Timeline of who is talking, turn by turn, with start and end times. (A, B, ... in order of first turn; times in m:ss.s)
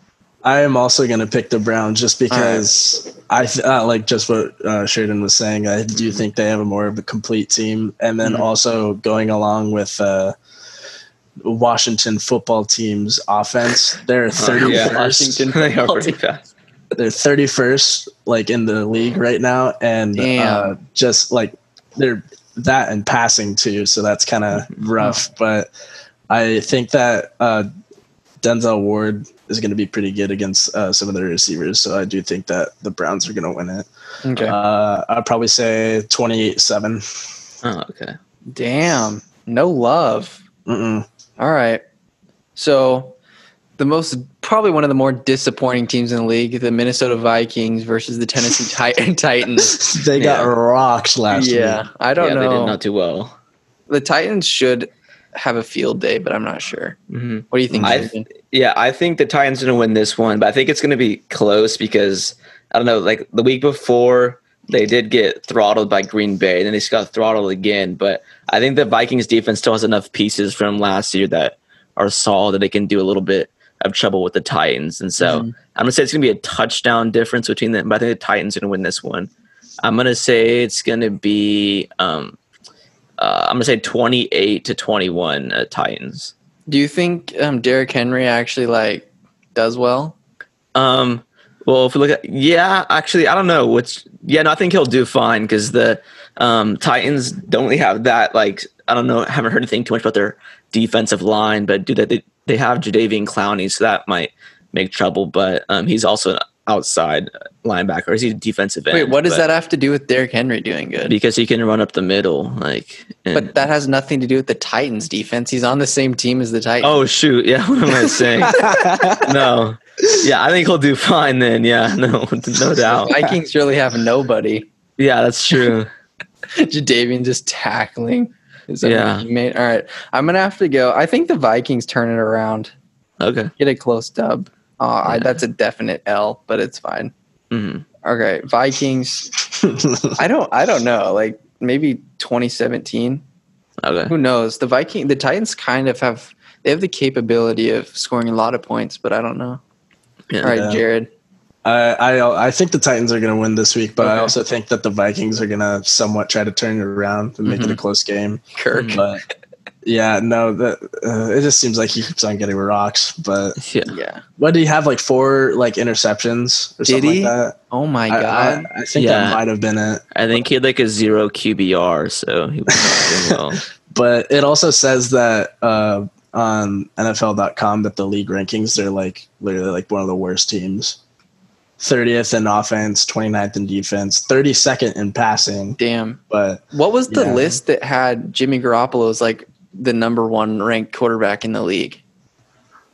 0:00.4-0:10.4 A
0:02.3-0:02.6 B
0:11.4-0:15.4 A
0:14.4-0:16.4 C
0:14.6-0:16.2 B
0:17.0-0:25.7 A
0:20.2-0:20.7 B
0:26.3-0:27.7 A
0:28.4-0:37.0 A
0:34.2-0:34.6 B
0:37.6-0:38.2 C
0:38.5-0:40.4 B
0:40.7-0:41.0 A
0:41.4-0:41.8 B
0:42.6-0:43.2 B
0:43.8-0:49.8 B
0:49.6-0:51.8 A
0:50.2-0:50.5 C
0:51.3-0:52.8 B
0:52.2-0:53.3 C
0:53.9-0:57.0 B
0:57.1-1:19.3 C
0:57.5-0:58.3 B
0:57.7-0:58.0 A
1:15.2-1:15.5 B
1:19.8-1:22.4 C
1:23.2-1:26.3 C
1:26.7-1:30.2 B
1:30.7-1:49.4 C
1:48.9-1:51.1 B
1:51.1-1:53.5 C
1:53.3-1:57.0 B
1:56.8-2:03.2 C
1:58.0-1:58.7 B
1:58.5-1:59.3 A
2:02.9-2:04.7 B
2:05.0-2:05.9 C
2:06.5-2:12.7 B
2:08.8-2:09.3 C
2:13.2-2:13.5 C
2:13.6-2:17.1 B
2:15.0-2:15.4 C
2:17.5-2:17.8 C
2:18.0-2:19.3 B
2:19.6-2:20.2 A
2:20.2-2:23.2 B
2:23.8-2:24.1 C
2:24.1-2:29.6 B
2:30.4-2:31.1 B
2:30.4-2:30.8 A
2:31.6-2:39.2 A
2:34.0-2:34.3 B
2:37.4-2:37.8 B
2:38.5-2:39.0 B
2:38.7-2:39.0 C
2:39.8-2:43.6 A
2:43.6-2:43.9 C
2:43.8-2:44.2 B
2:44.4-2:47.6 A
2:46.8-2:48.7 B
2:48.1-2:50.4 A
2:48.9-2:49.4 C
2:50.1-2:53.6 C
2:52.7-2:53.4 A
2:53.9-3:01.0 A
3:01.8-3:05.8 A
3:05.8-3:06.2 B
3:06.3-3:07.6 A
3:06.7-3:12.0 B